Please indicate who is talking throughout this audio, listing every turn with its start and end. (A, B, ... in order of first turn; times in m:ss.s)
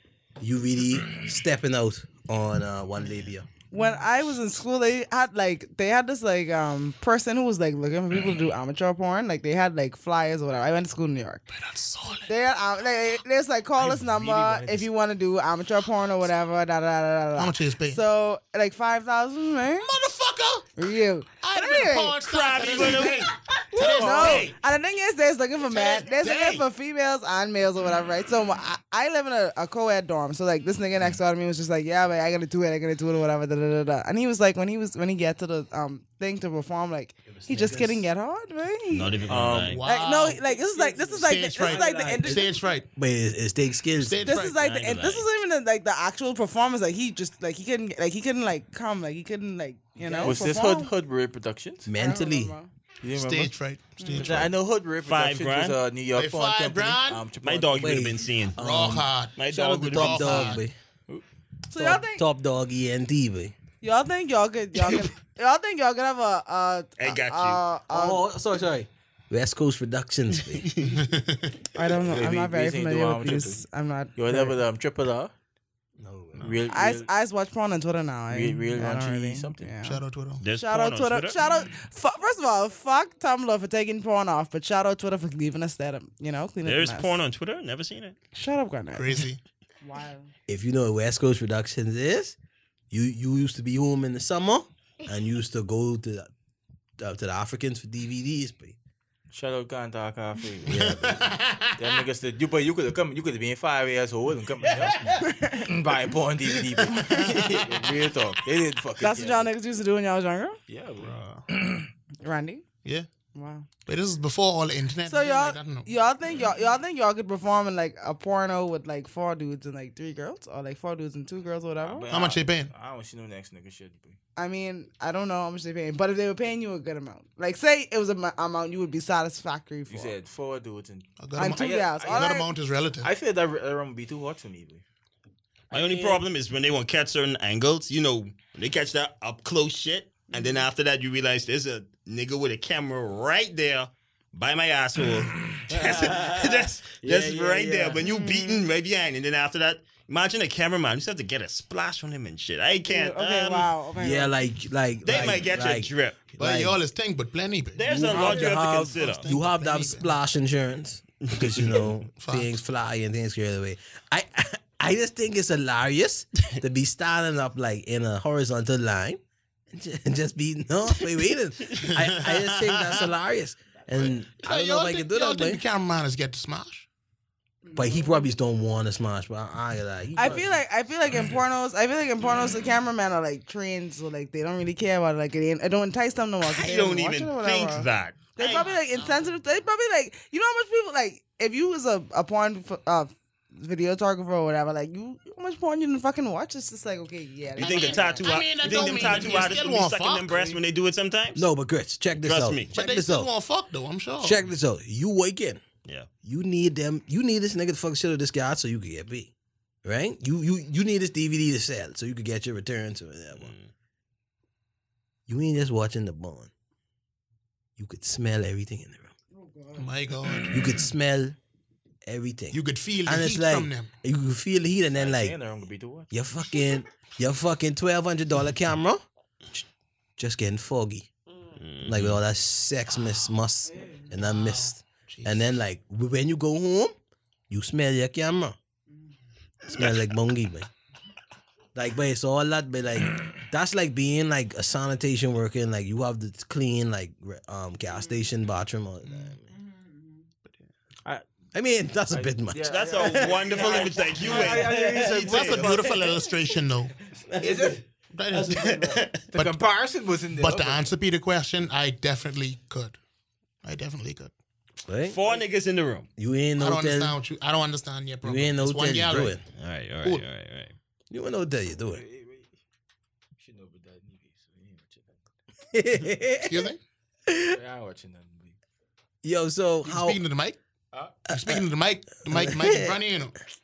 0:00.4-0:03.5 A
0:03.7-0:11.5 B
0:11.5-0:12.3 C
0:12.3-0:19.9 B
0:13.8-0:14.8 D
0:17.4-0:18.0 C
0:19.8-0:20.7 C
0:20.8-0:22.2 B
0:21.4-0:24.5 C
0:22.2-0:23.3 D
0:23.8-0:24.4 E
0:23.9-0:39.2 B
0:24.0-0:24.5 D
0:25.7-0:26.6 C
0:37.2-0:38.1 A
0:38.9-0:39.8 D
0:39.3-0:39.8 E
0:39.5-0:40.4 C
0:39.8-0:42.5 B
0:40.5-0:41.3 E
0:41.1-0:42.8 C
0:41.6-0:44.3 A
0:44.0-0:44.6 C
0:44.2-0:50.9 B
0:44.5-0:45.3 D
0:50.1-0:50.3 A
0:50.2-0:51.9 E
0:51.8-0:52.5 A
0:52.0-0:52.7 B
0:53.0-0:53.6 E
0:53.1-0:54.5 C
0:54.0-0:54.4 B
0:54.1-0:58.1 E
0:55.0-0:55.8 D
0:56.1-0:57.3 C
0:57.4-0:58.6 D
0:57.8-1:00.7 A
0:58.6-1:00.6 C
0:59.4-1:00.6 D
1:01.7-1:02.2 B
1:01.8-1:03.5 A
1:03.8-1:08.2 B
1:07.0-1:07.6 D
1:07.9-1:10.7 A
1:10.6-1:10.9 D
1:10.8-1:11.6 C
1:11.7-1:14.6 B
1:12.0-1:13.6 E
1:14.2-1:15.3 E
1:16.0-1:16.5 A
1:16.4-1:17.1 E
1:16.7-1:20.0 B
1:18.3-1:19.7 E
1:19.8-1:20.4 C
1:20.4-1:21.4 D
1:20.5-1:27.1 B
1:26.6-1:28.2 D
1:28.3-1:29.2 B
1:28.9-1:29.4 C
1:29.8-1:30.3 B
1:30.5-1:32.4 A
1:32.9-1:36.3 A
1:37.0-1:38.8 A
1:39.3-1:41.0 E
1:40.6-1:41.2 A
1:40.7-1:41.9 C
1:41.8-1:49.5 E
1:45.1-1:45.7 B
1:46.9-1:47.8 C
1:46.9-1:47.3 B
1:49.0-1:50.6 B
1:50.7-1:51.8 E
1:51.0-1:51.4 C
1:52.2-1:52.6 B
1:53.3-1:53.7 B
1:53.8-1:55.9 C
1:55.1-2:02.1 B
2:01.8-2:04.2 E
2:02.1-2:02.7 C
2:04.4-2:10.2 B
2:09.9-2:12.4 E
2:11.2-2:13.1 C
2:11.4-2:12.5 B
2:13.0-2:14.8 E
2:15.7-2:33.7 D
2:15.7-2:16.1 B
2:20.3-2:20.6 B
2:25.7-2:28.0 A
2:28.0-2:28.6 B
2:32.9-2:34.4 B
2:34.0-2:36.8 A
2:35.0-2:36.2 D
2:36.4-2:40.1 C
2:37.7-2:39.3 D
2:37.9-2:55.6 A
2:41.2-2:41.6 D
2:42.2-2:42.6 C
2:51.8-2:53.1 C
2:53.9-2:56.9 C
2:57.6-2:58.2 B
2:57.7-3:00.6 A
3:00.2-3:19.4 B
3:06.4-3:08.7 D
3:08.4-3:09.3 C
3:17.6-3:20.6 C
3:17.6-3:21.5 D
3:21.3-3:23.3 A
3:22.2-3:22.7 D
3:22.7-3:24.4 C
3:24.2-3:25.6 A
3:26.2-3:29.3 A
3:29.8-3:33.5 A
3:33.3-3:33.7 D
3:35.3-3:36.5 A
3:37.8-3:39.1 A
3:39.3-3:39.9 B
3:39.8-3:40.9 C
3:40.5-3:41.4 A
3:42.0-3:45.4 A
3:42.5-3:43.9 C
3:44.9-3:46.1 E
3:46.1-3:49.0 A
3:50.2-3:51.1 A
3:51.6-3:52.2 D
3:51.8-3:56.9 A
3:53.7-3:54.1 B
3:54.1-3:55.5 C
3:57.5-3:58.6 A
3:59.6-4:00.7 A
3:59.7-4:00.0 D
4:01.7-4:09.5 A
4:09.0-4:09.3 C
4:11.5-4:15.1 A
4:12.1-4:16.1 E
4:12.6-4:15.8 D
4:15.1-4:16.9 C
4:17.3-4:19.0 A
4:17.4-4:17.8 E
4:18.1-4:19.6 C
4:18.6-4:19.3 D
4:19.3-4:20.9 E
4:20.3-4:23.0 C
4:23.6-4:24.3 C
4:24.8-4:25.2 A
4:25.1-4:26.1 D
4:26.2-4:27.2 A
4:26.6-4:29.4 C
4:28.2-4:29.4 A
4:29.6-4:30.7 D
4:31.1-4:32.0 A
4:31.9-4:32.5 E
4:33.4-4:35.2 E
4:35.7-4:36.7 A
4:36.4-4:36.8 C
4:37.3-4:37.6 A
4:37.5-4:38.6 E
4:39.2-4:40.2 A
4:39.8-4:40.6 C
4:40.9-4:41.2 E
4:41.3-4:43.4 C
4:41.3-4:41.6 A
4:42.3-4:43.0 A